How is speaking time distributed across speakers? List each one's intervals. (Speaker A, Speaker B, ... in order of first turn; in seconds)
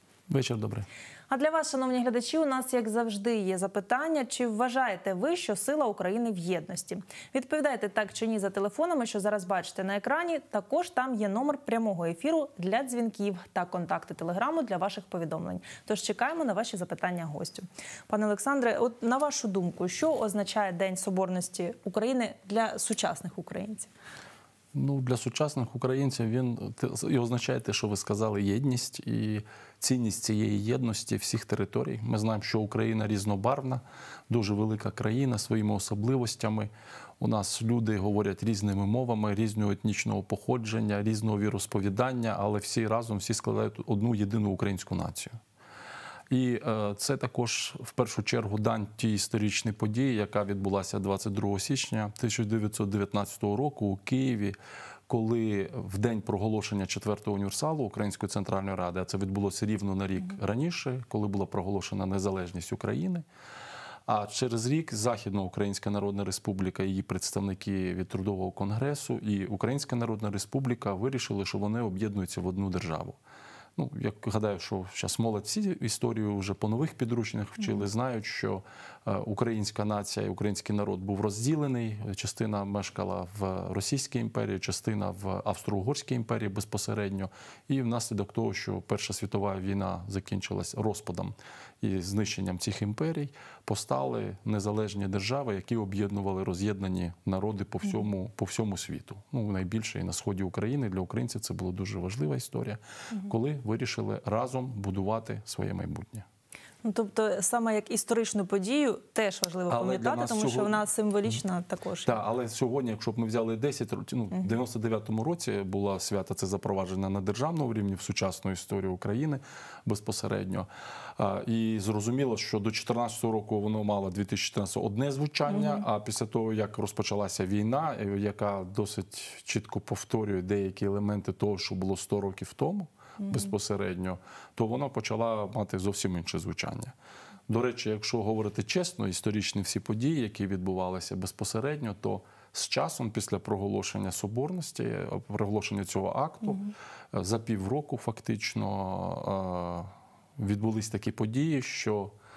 Speaker A: 0.3-0.9, 24.7-45.4, 46.3-54.6, 55.1-63.3, 64.1-73.2, 73.8-106.3, 109.7-111.4, 112.0-136.9, 137.5-152.1
Speaker B: 1.3-23.9, 106.8-112.2, 125.5-125.8, 133.2-133.5